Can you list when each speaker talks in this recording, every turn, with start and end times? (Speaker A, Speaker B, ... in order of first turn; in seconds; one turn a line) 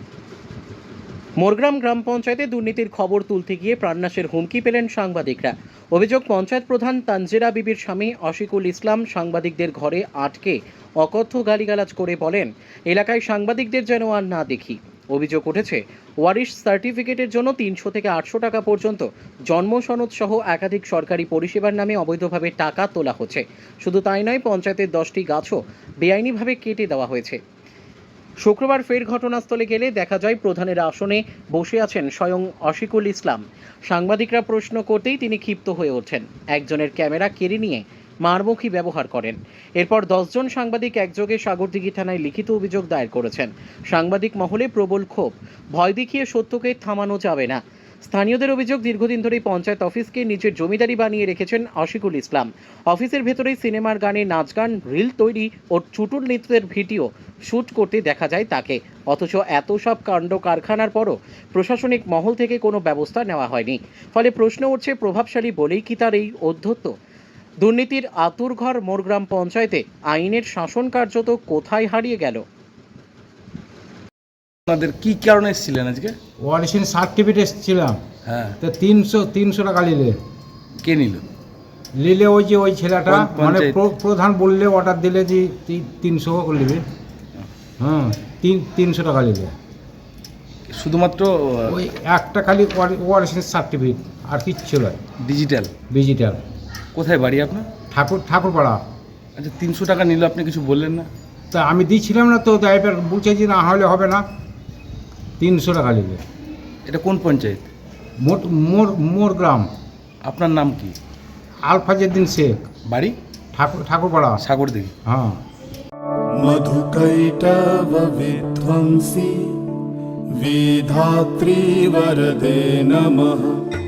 Speaker A: 1.4-27.4
Speaker A: 28.4-67.0
Speaker A: 67.6-72.4
Speaker B: 74.7-76.2
Speaker C: 76.4-78.0
Speaker B: 78.3-78.6
Speaker C: 78.6-80.2
Speaker B: 80.8-81.2
Speaker C: 82.0-86.8
Speaker B: 83.1-83.8
Speaker C: 87.8-89.5
Speaker B: 90.7-91.8
Speaker C: 91.7-95.0
Speaker B: 95.2-95.7
Speaker C: 95.9-96.4
Speaker B: 96.9-97.7
Speaker C: 97.9-98.8
Speaker B: 99.4-101.1
Speaker C: 101.5-104.2
Speaker C: 105.4-106.2
Speaker B: 106.9-107.7
Speaker C: 108.2-109.7
Speaker B: 110.2-111.0
Speaker C: 111.7-112.6
Speaker B: 112.9-113.2
Speaker C: 113.5-114.4
Speaker B: 114.4-115.0
Speaker C: 115.0-115.4
Speaker D: 116.3-119.6
Speaker D: 120.3-123.7